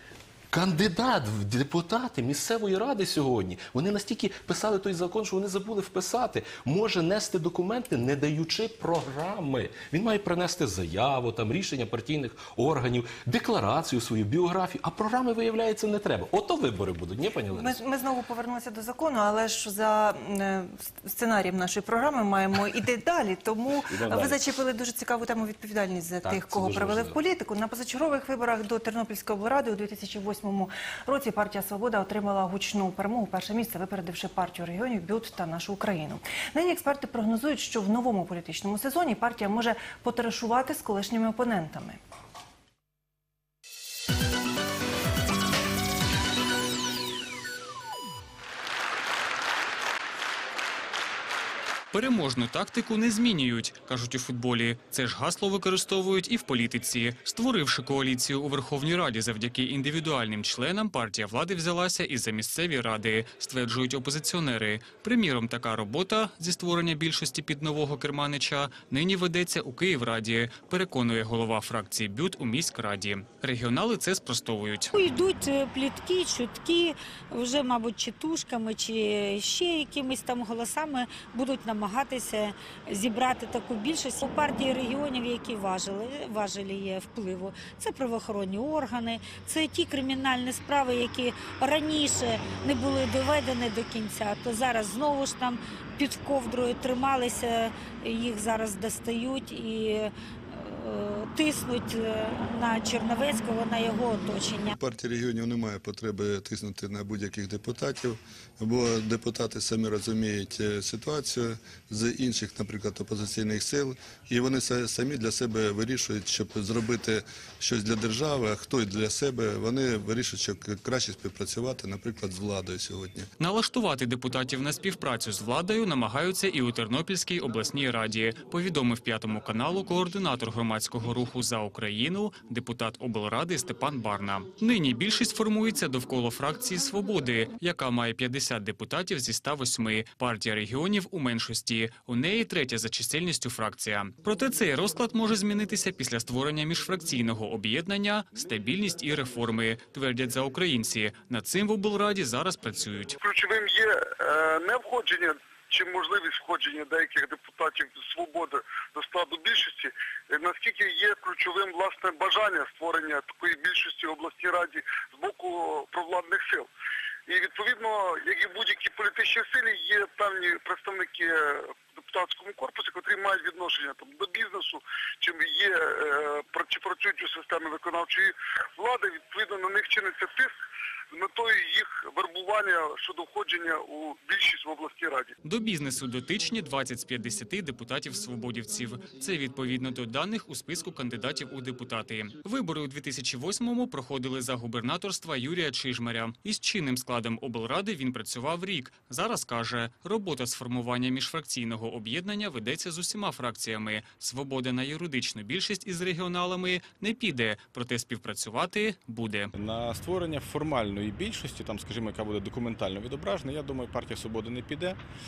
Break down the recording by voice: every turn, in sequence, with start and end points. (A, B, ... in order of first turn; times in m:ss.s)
0:00.5-0:17.8 A
0:17.5-0:42.0 B
0:23.8-0:24.4 A
0:26.2-0:27.2 A
0:51.9-1:14.9 C
1:14.9-1:44.7 D
1:44.8-2:03.3 E
2:03.4-2:33.2 C
2:33.2-2:46.7 F
2:47.3-3:00.5 F
3:01.1-3:05.3 F
3:05.4-3:29.5 C
3:29.5-3:35.0 G